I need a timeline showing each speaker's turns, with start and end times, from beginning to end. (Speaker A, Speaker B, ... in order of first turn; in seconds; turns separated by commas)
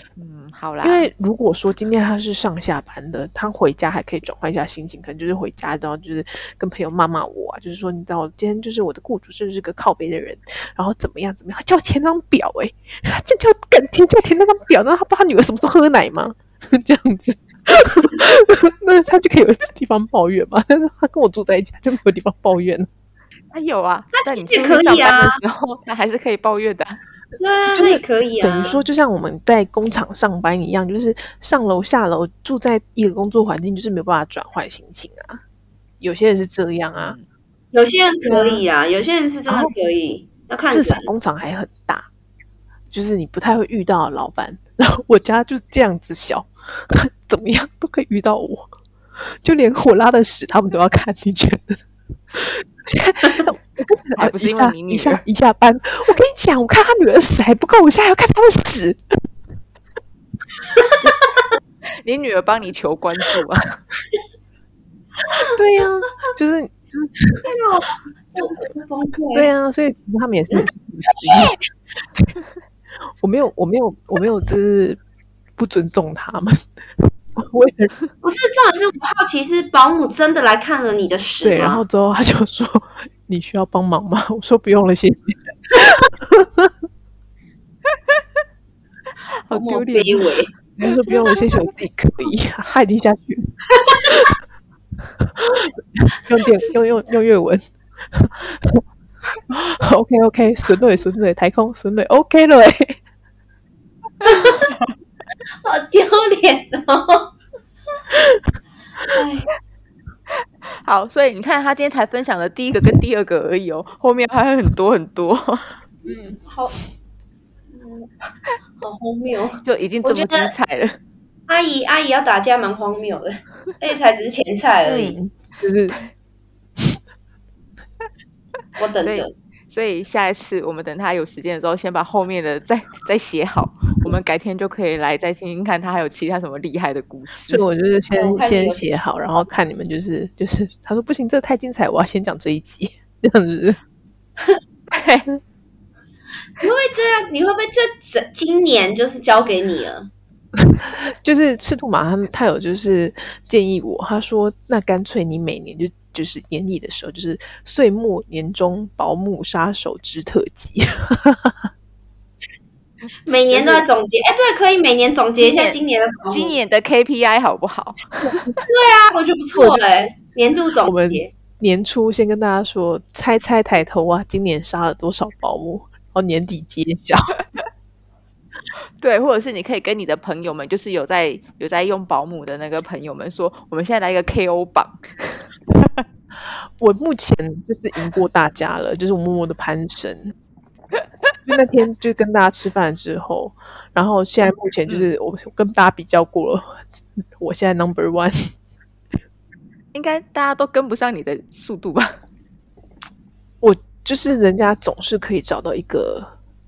Speaker A: 0.2-1.1, Speaker B: 0.8-22.9, Speaker A: 23.5-27.0, Speaker C: 24.1-25.4, Speaker C: 27.4-28.8, Speaker B: 27.7-35.4, Speaker B: 36.0-37.1, Speaker A: 36.9-37.2, Speaker C: 37.7-41.1, Speaker B: 38.3-38.6, Speaker B: 39.5-39.7, Speaker B: 40.7-42.1, Speaker B: 42.9-48.7, Speaker B: 49.4-51.8, Speaker B: 52.3-59.0, Speaker A: 54.1-55.2, Speaker C: 60.7-61.4, Speaker A: 62.0-63.7, Speaker C: 65.3-65.6, Speaker B: 65.4-67.4, Speaker C: 67.4-69.5, Speaker B: 69.3-71.5, Speaker C: 70.5-71.6, Speaker B: 73.2-75.0, Speaker B: 75.6-77.9, Speaker C: 78.2-81.8, Speaker B: 81.4-86.7, Speaker A: 89.4-90.3, Speaker C: 89.5-90.5, Speaker B: 90.8-94.3, Speaker C: 93.7-94.2, Speaker B: 95.2-98.8, Speaker B: 99.5-103.0, Speaker C: 104.2-104.7, Speaker A: 104.6-104.9, Speaker C: 105.6-107.3, Speaker B: 108.2-108.4, Speaker C: 109.1-109.5, Speaker A: 110.7-115.7, Speaker B: 116.0-116.4, Speaker C: 116.5-116.7, Speaker C: 117.7-118.1, Speaker C: 118.8-120.5, Speaker A: 119.6-121.0, Speaker C: 121.5-125.2, Speaker B: 124.8-125.9, Speaker C: 128.8-129.3, Speaker A: 129.0-137.6, Speaker B: 137.5-143.8, Speaker C: 138.1-138.9, Speaker A: 144.9-145.3, Speaker C: 146.6-150.1, Speaker B: 150.6-161.7, Speaker C: 163.2-166.5, Speaker B: 163.5-163.8, Speaker A: 165.4-168.2, Speaker B: 168.2-168.7, Speaker C: 168.7-171.3, Speaker B: 169.5-169.8, Speaker B: 170.8-177.3, Speaker A: 179.0-186.0, Speaker B: 186.8-190.3, Speaker B: 191.5-196.9, Speaker B: 197.4-198.5, Speaker A: 199.9-202.2, Speaker B: 203.6-206.3